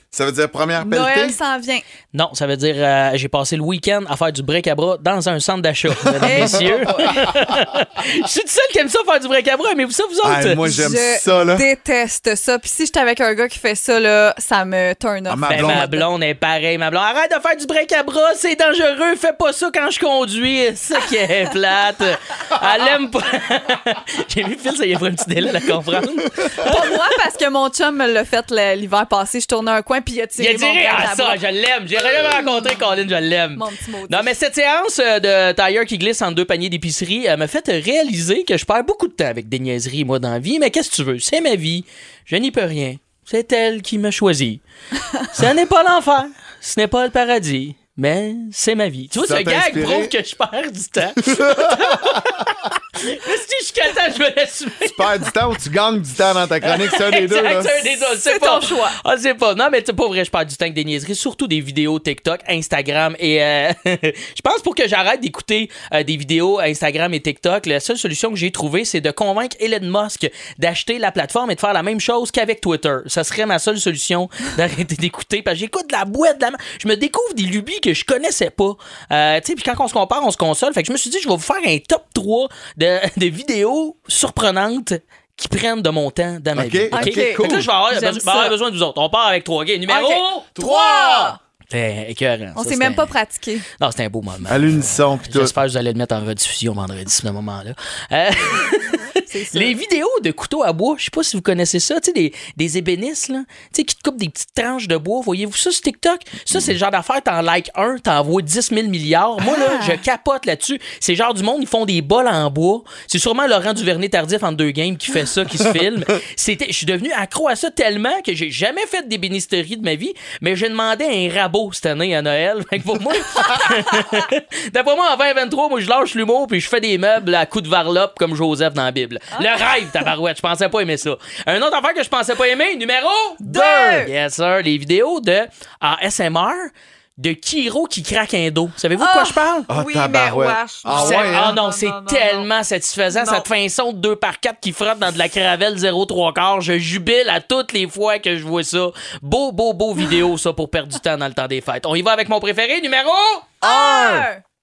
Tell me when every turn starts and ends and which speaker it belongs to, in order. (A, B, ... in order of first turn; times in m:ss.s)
0:00.1-0:01.4 A
0:00.8-0:01.8 B
0:02.1-0:10.6 C
0:06.2-0:06.8 A
0:06.2-0:07.3 B
0:10.2-0:11.7 A
0:10.6-0:16.1 B
0:15.3-0:15.9 A
0:15.5-0:26.8 C
0:26.6-0:31.4 B
0:30.4-0:44.6 C
0:32.1-0:32.6 B
0:33.5-0:34.4 B
0:45.3-0:55.3 C
0:49.1-0:50.1 A
0:51.3-0:52.2 A
0:54.8-0:57.8 A
0:56.6-1:30.5 C
0:57.9-0:59.0 B
1:26.5-1:27.7 A
1:26.9-1:28.6 B
1:29.9-1:31.4 B
1:30.6-1:31.4 A
1:31.7-1:33.1 C
1:32.6-1:33.7 B
1:33.8-2:19.7 C
1:34.5-1:35.6 A
1:39.3-1:39.8 B
1:49.4-1:50.0 B
2:09.3-2:10.1 B
2:13.4-2:14.1 B
2:19.0-2:22.5 B
2:19.7-2:21.6 A
2:20.9-2:33.6 C
2:23.1-2:23.5 B
2:33.6-2:34.4 B
2:33.6-2:34.3 A